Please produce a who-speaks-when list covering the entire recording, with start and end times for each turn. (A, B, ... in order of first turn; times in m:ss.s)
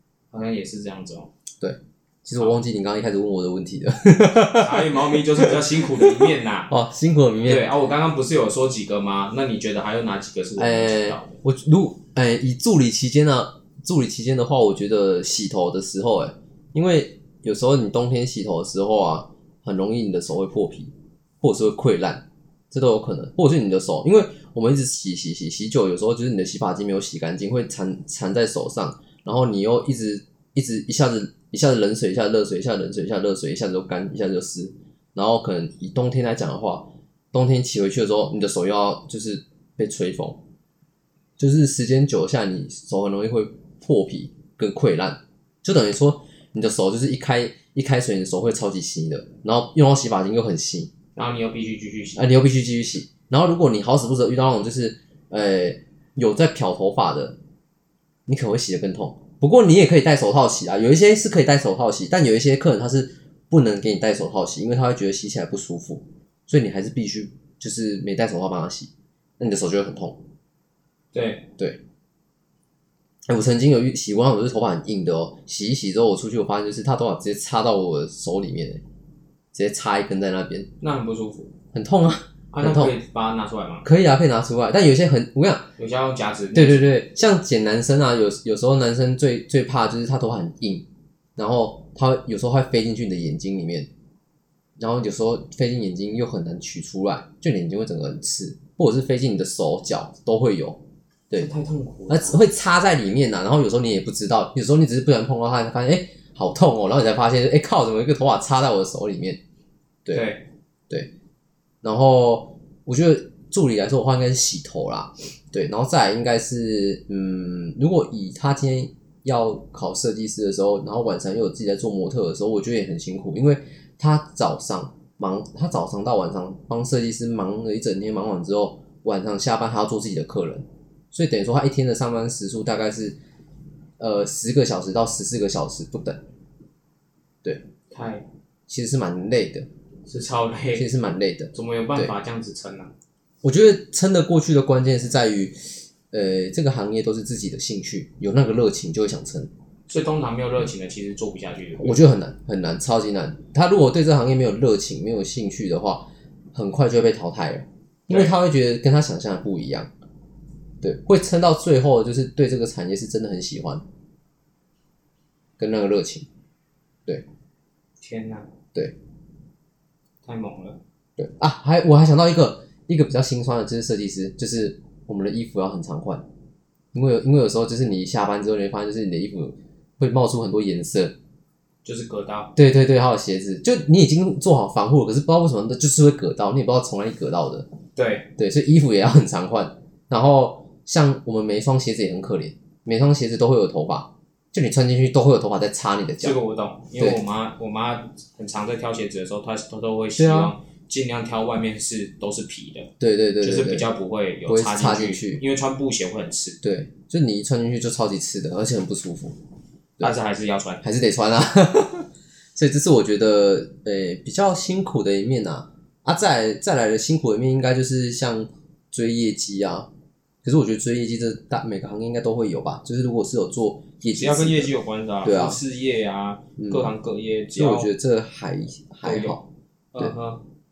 0:00.3-0:01.3 A
0:01.6-0:07.7 B
0:04.4-0:06.7 A
0:07.4-0:11.4 A
0:10.6-0:40.4 B
0:41.4-0:50.9 B
0:51.2-0:52.2 A
0:52.2-0:57.4 B
0:58.3-1:10.2 B
1:11.1-1:11.5 A
1:13.3-1:18.8 B
1:19.5-1:20.7 B
1:20.8-1:21.5 A
1:21.7-1:22.9 B
1:22.5-1:23.9 A
1:23.8-1:25.7 B
1:25.8-1:26.9 A
1:26.5-1:30.8 B
1:31.4-1:33.9 B
1:34.8-1:41.5 B
1:41.4-1:42.4 A
1:42.1-1:49.4 B
1:50.1-1:50.4 A
1:51.8-2:13.2 B
2:14.0-2:16.2 B
2:17.9-2:18.2 A
2:18.7-2:19.7 B
2:20.1-2:20.9 A
2:20.7-2:22.1 B
2:21.5-2:22.9 A
2:23.4-2:29.5 B
2:29.9-2:32.1 A
2:31.8-2:39.9 B
2:38.1-2:38.4 A
2:40.8-2:43.8 B
2:45.6-2:46.3 B
2:48.0-2:48.5 A
2:50.2-2:50.8 A
2:51.2-2:56.2 B
2:56.9-3:01.2 B
3:01.8-3:02.5 A
3:02.6-3:07.7 B
3:08.0-3:08.3 A
3:08.4-3:16.4 B
3:16.2-3:26.6 A
3:20.2-3:20.5 B
3:23.0-3:23.9 B
3:24.5-3:25.4 B
3:26.6-3:29.4 B
3:30.0-3:30.8 A
3:30.8-3:39.9 B
3:40.4-3:45.6 B
3:44.1-3:47.9 A
3:46.6-3:46.9 B
3:47.5-3:49.4 B
3:49.0-3:49.4 A
3:49.9-3:50.4 A